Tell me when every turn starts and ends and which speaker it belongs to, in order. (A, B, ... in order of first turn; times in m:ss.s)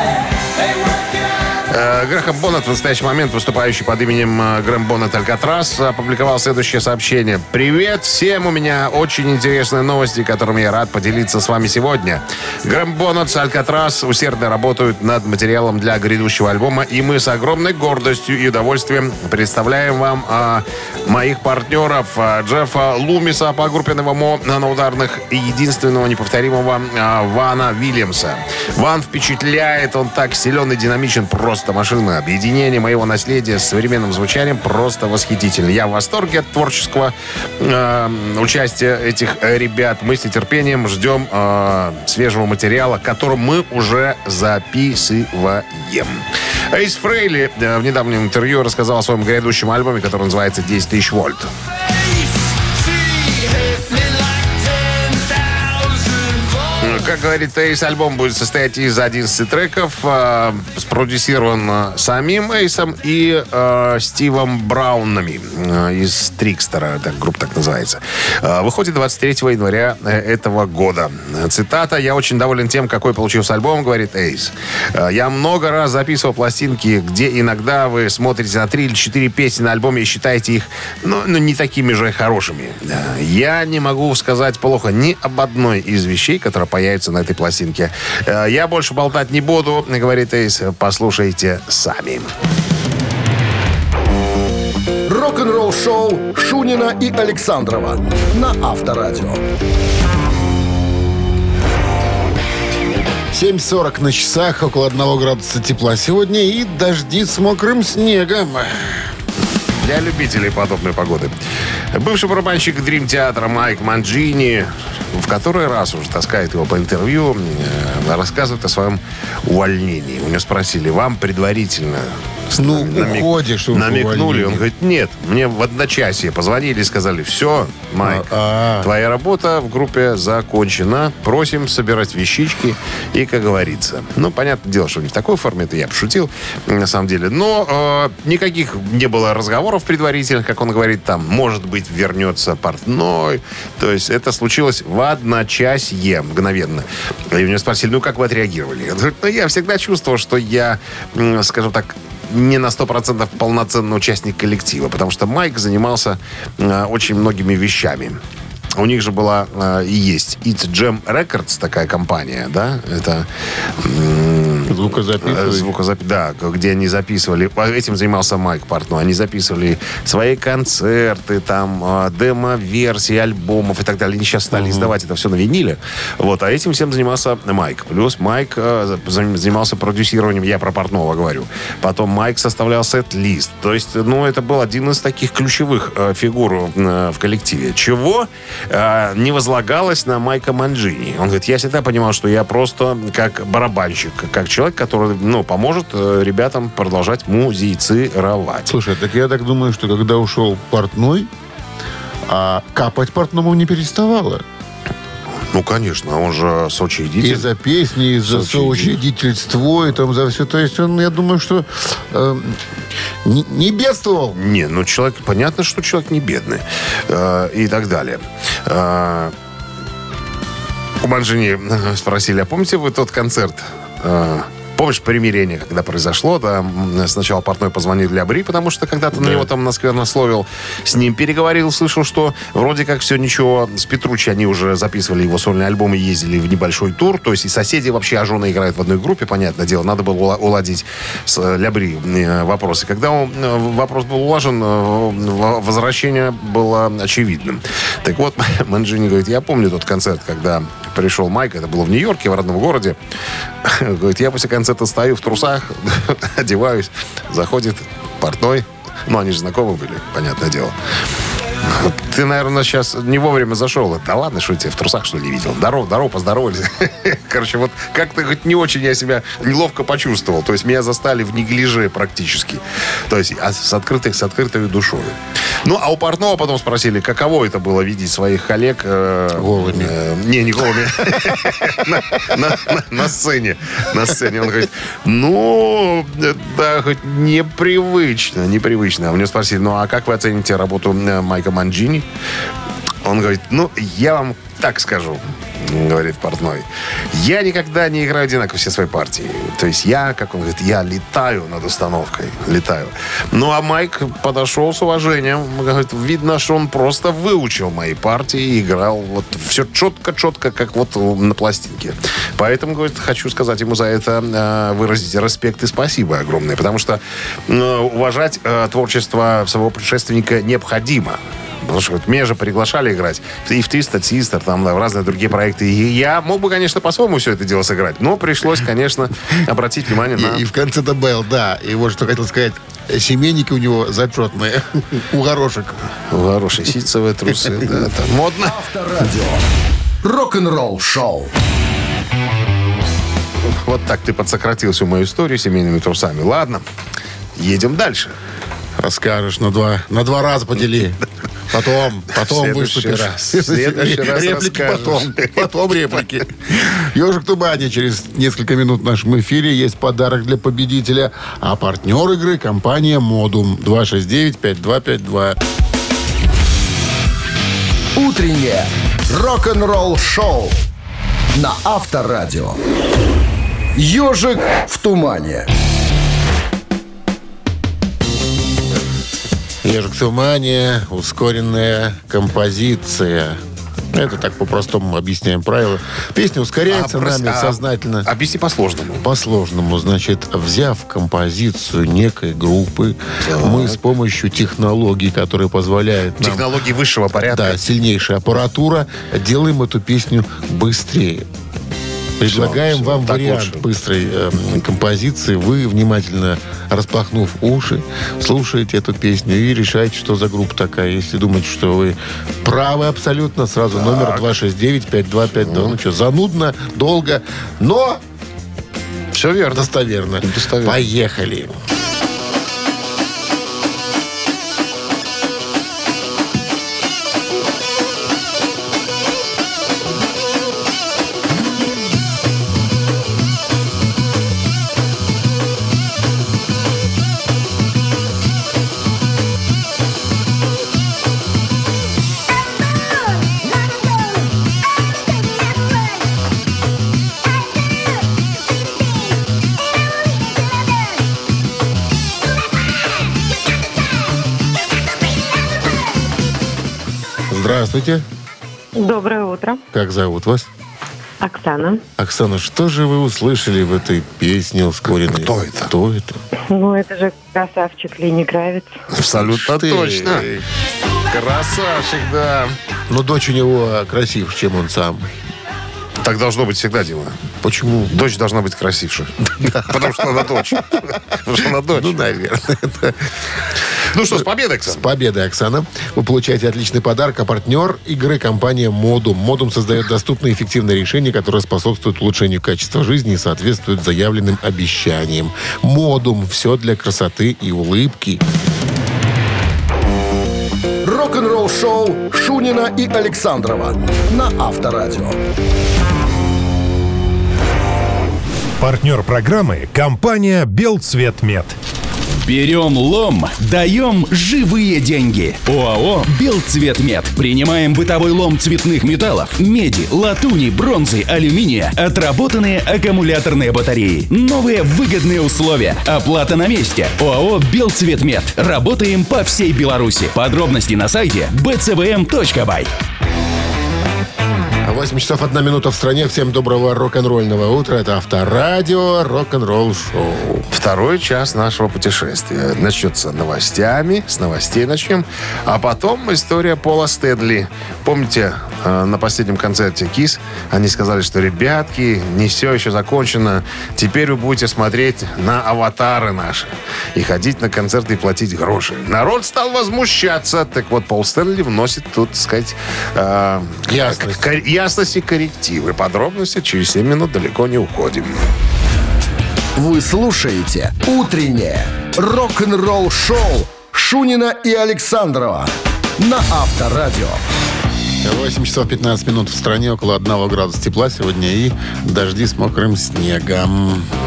0:01.7-0:51.5 A
0:56.8-1:32.3 A
1:35.1-1:39.4 B
1:43.3-1:49.1 C
1:49.8-1:51.4 A
1:51.9-2:08.3 A
2:02.6-2:04.6 C
2:08.0-2:08.9 C
2:08.8-2:38.2 A
2:38.8-3:18.8 A
2:44.7-2:45.7 C
2:54.5-2:54.9 C
3:18.7-3:21.3 C
3:22.3-3:24.4 C
3:25.5-3:27.5 A
3:27.2-3:32.6 C
3:28.3-3:29.0 A
3:33.2-3:34.4 C
3:34.3-3:39.3 A
3:41.0-4:13.0 A
3:49.2-3:49.5 C
4:13.6-4:20.8 A
4:21.6-4:52.1 A
4:39.3-4:40.0 C
4:53.0-5:30.4 A
5:30.1-5:35.8 C
5:36.1-5:38.6 A
5:37.4-5:37.8 C
5:38.4-5:39.4 B
5:40.0-5:41.3 B
5:43.5-5:46.6 A
5:47.4-5:48.2 A
5:48.8-5:51.0 C
5:51.5-6:05.4 C
5:52.2-5:56.0 A
6:08.0-6:10.6 B
6:11.3-6:12.6 B
6:13.8-6:15.5 B
6:19.6-6:23.4 C
6:23.9-6:28.1 C
6:26.7-6:29.0 A
6:29.0-6:36.5 C
6:33.3-6:33.8 A
6:36.2-6:37.6 A
6:37.3-6:41.3 C
6:42.2-6:58.0 C
6:42.2-6:43.6 A
6:53.7-6:54.3 A
6:55.3-6:55.8 A
6:59.1-6:59.7 A
6:59.5-7:01.5 C
7:00.2-7:00.8 A
7:37.3-7:38.0 C
7:38.8-7:39.6 D
7:39.7-7:40.5 C
7:42.0-7:46.2 C
7:45.0-7:45.7 A
7:46.5-7:48.7 D
7:48.9-7:50.3 A
7:49.1-7:50.4 C
7:51.1-7:52.6 A
7:52.9-7:55.1 C
7:56.0-7:57.2 A
7:57.4-7:57.9 C
7:57.8-8:02.0 A
7:59.4-8:00.6 C
8:01.4-8:03.0 C
8:03.9-8:04.8 A
8:04.1-8:18.2 C
8:20.8-8:25.2 B
8:28.6-8:31.6 E
8:32.2-8:52.7 F
8:54.6-9:00.5 C
9:00.5-9:28.2 A
9:23.7-9:24.2 C
9:29.6-9:37.2 B
9:38.0-9:43.9 C